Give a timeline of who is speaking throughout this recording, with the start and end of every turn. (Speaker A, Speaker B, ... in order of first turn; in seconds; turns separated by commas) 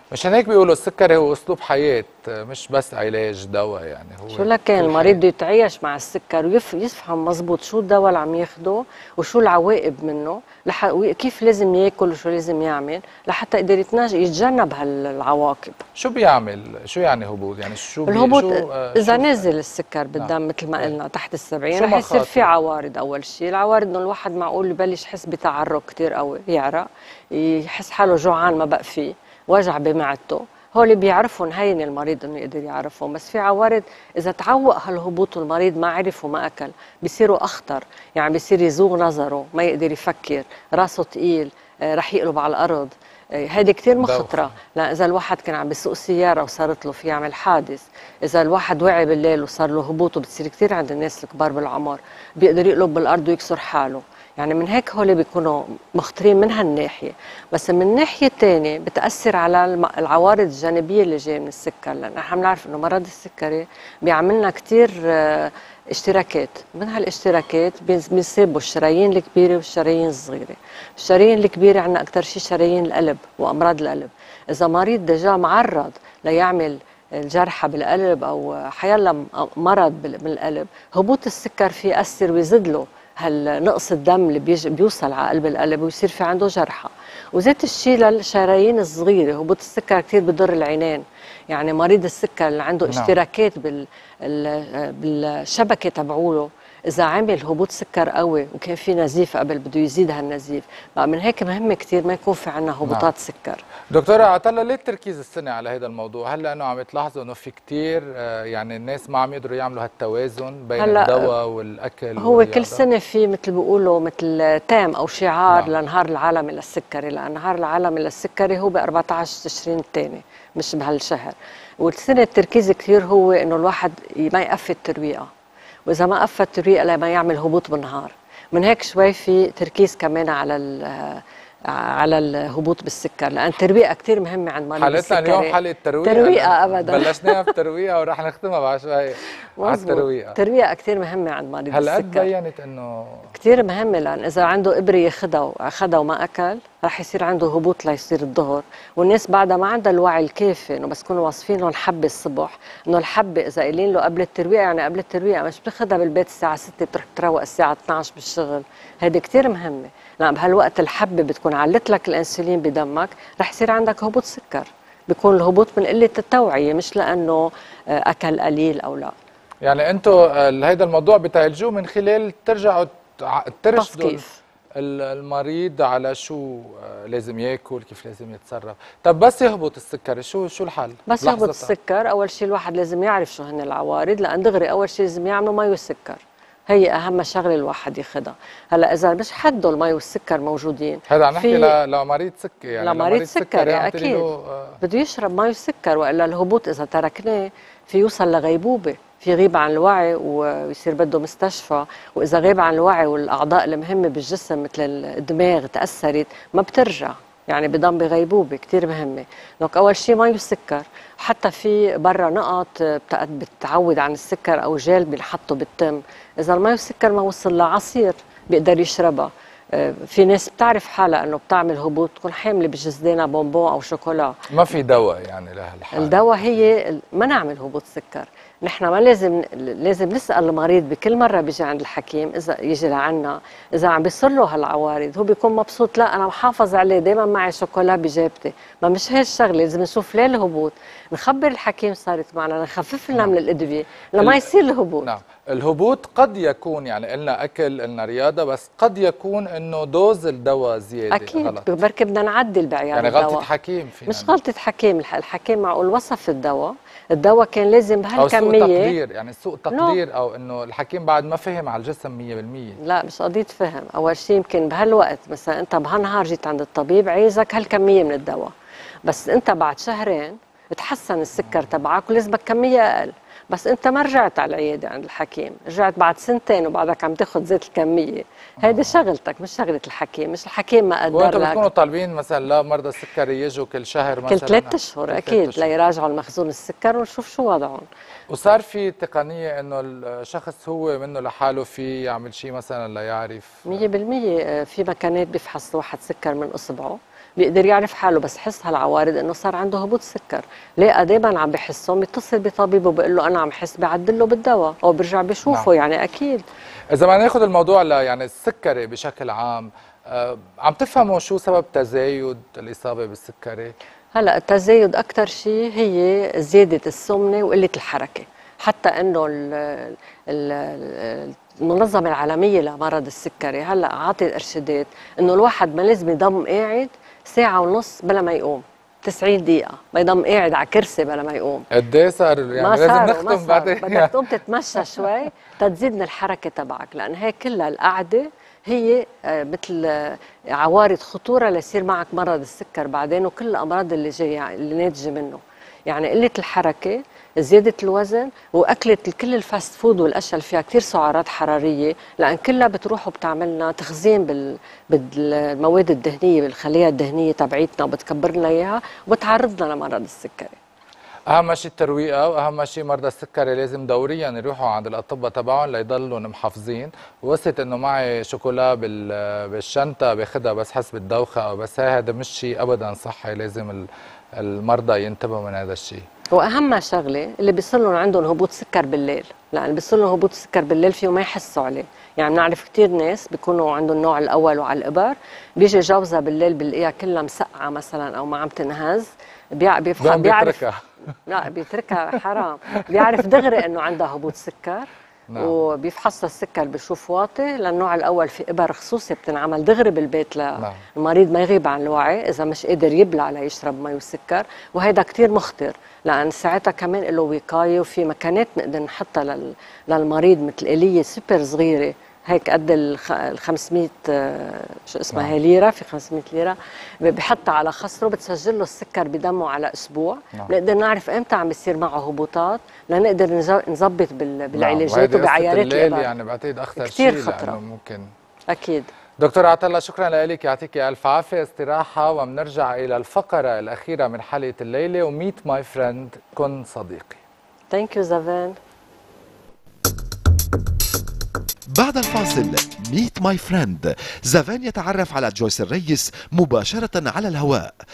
Speaker A: 0.1-5.2, Speaker B: 4.3-15.8, Speaker A: 16.0-19.5, Speaker B: 18.1-103.6, Speaker A: 21.8-22.5, Speaker A: 44.0-44.5, Speaker A: 103.9-112.8, Speaker B: 110.8-111.3, Speaker B: 112.2-125.3, Speaker B: 125.9-137.5, Speaker A: 134.8-140.4, Speaker B: 139.6-142.3, Speaker A: 141.7-143.3, Speaker B: 143.3-169.1, Speaker A: 169.6-174.2, Speaker B: 173.8-174.3, Speaker A: 174.8-181.7, Speaker B: 181.1-191.8, Speaker A: 191.1-194.8, Speaker B: 192.8-194.2, Speaker B: 194.8-224.4, Speaker A: 224.5-226.5, Speaker B: 225.9-245.1, Speaker A: 244.2-244.5, Speaker A: 245.0-251.7, Speaker B: 251.1-253.5, Speaker A: 253.0-254.3, Speaker B: 254.1-258.9, Speaker A: 258.2-262.8, Speaker B: 259.7-260.0, Speaker B: 262.8-268.5, Speaker B: 269.1-281.7, Speaker A: 278.6-279.0, Speaker A: 281.1-285.7, Speaker B: 284.3-287.9, Speaker A: 288.3-293.9, Speaker B: 293.7-306.4, Speaker A: 306.9-313.8, Speaker B: 314.1-331.7, Speaker A: 331.7-334.1, Speaker B: 332.5-360.6, Speaker A: 361.3-373.9, Speaker A: 374.4-376.1, Speaker B: 376.3-390.6, Speaker A: 390.0-390.8, Speaker B: 391.3-426.1, Speaker A: 395.3-395.6, Speaker A: 424.6-428.1, Speaker B: 426.8-427.6, Speaker B: 428.5-428.9, Speaker A: 429.2-437.2, Speaker B: 437.7-438.6, Speaker C: 441.8-447.8